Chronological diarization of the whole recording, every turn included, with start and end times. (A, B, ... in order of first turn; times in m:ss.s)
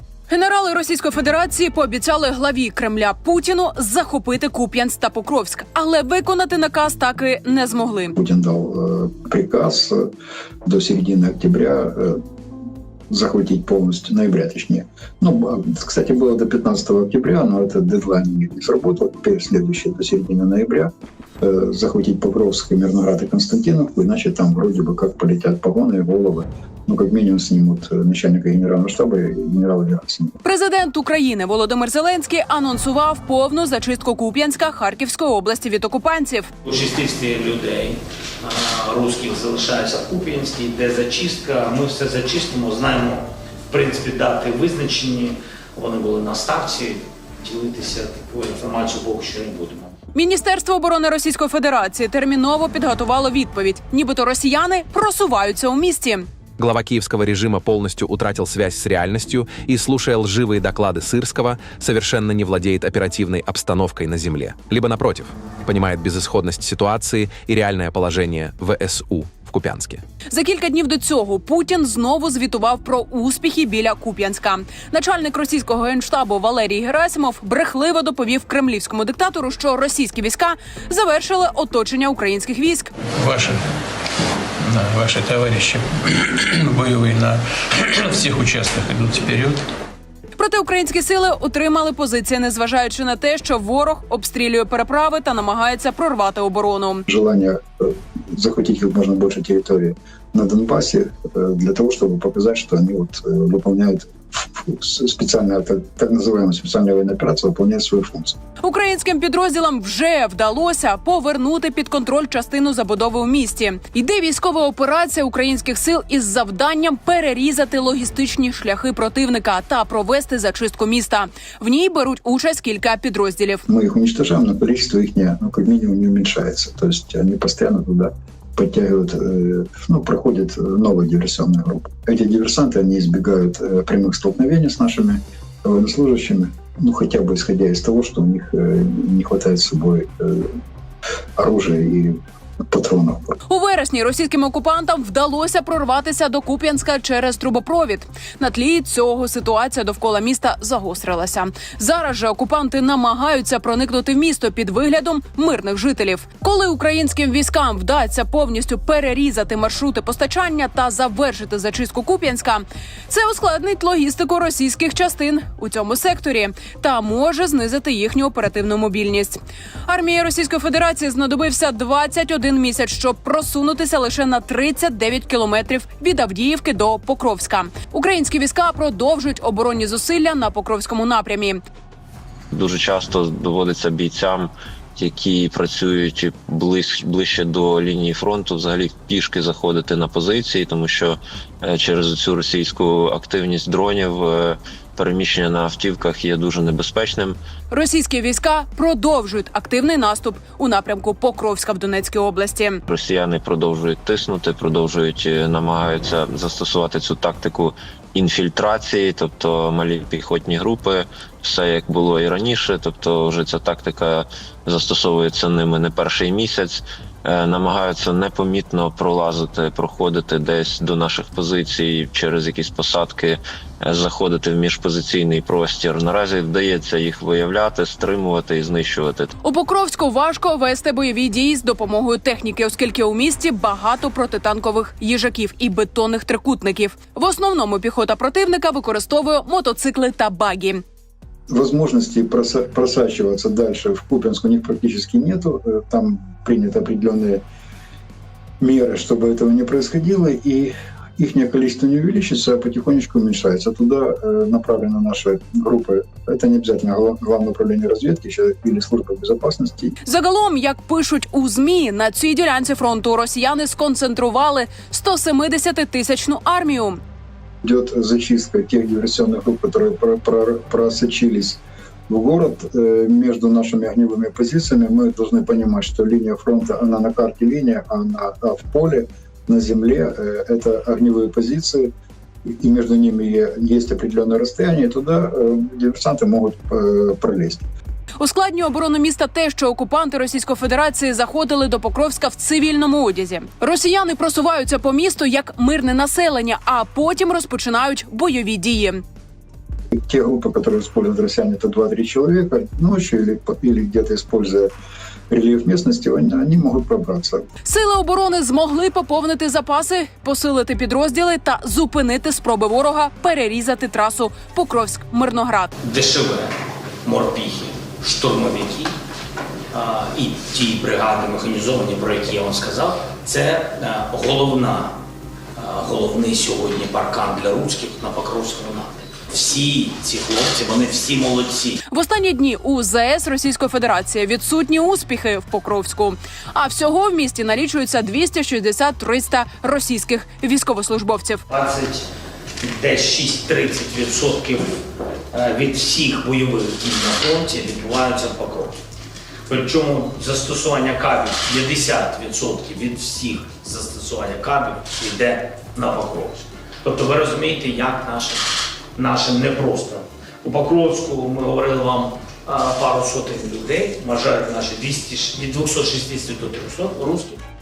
0:00.3-0:08.1 A
0:08.2-0:10.1 B
0:10.6-0:12.2 B
0:13.1-0:30.3 B
0:30.4-0:36.5 A
0:36.6-0:49.9 C
0:50.1-0:56.3 A
0:56.6-1:10.0 D
1:10.3-1:22.9 A
1:23.2-1:23.5 E
1:24.7-1:25.9 E
1:26.5-1:27.4 E
1:28.0-1:29.6 E
1:30.4-1:37.0 A
1:37.1-1:48.4 B
1:48.6-2:03.6 A
2:03.7-2:20.6 B
2:21.4-2:23.4 B
2:23.5-3:01.6 A
3:02.5-3:17.4 F
3:17.7-3:22.8 A
3:22.9-3:49.3 F
3:49.4-4:00.8 A
4:01.5-4:07.4 B
4:08.6-4:20.0 B
4:20.0-4:27.0 A
4:27.6-4:41.9 B
4:42.5-4:47.7 B
4:48.2-4:59.0 A
4:59.9-5:04.7 B
5:05.3-5:07.4 B
5:07.6-5:15.7 A
5:15.8-5:18.9 C
5:19.7-5:24.9 C
5:25.6-5:31.8 C
5:31.9-5:41.4 A
5:41.5-5:42.0 C
5:42.6-5:44.8 C
5:45.3-5:48.7 C
5:49.5-6:07.4 C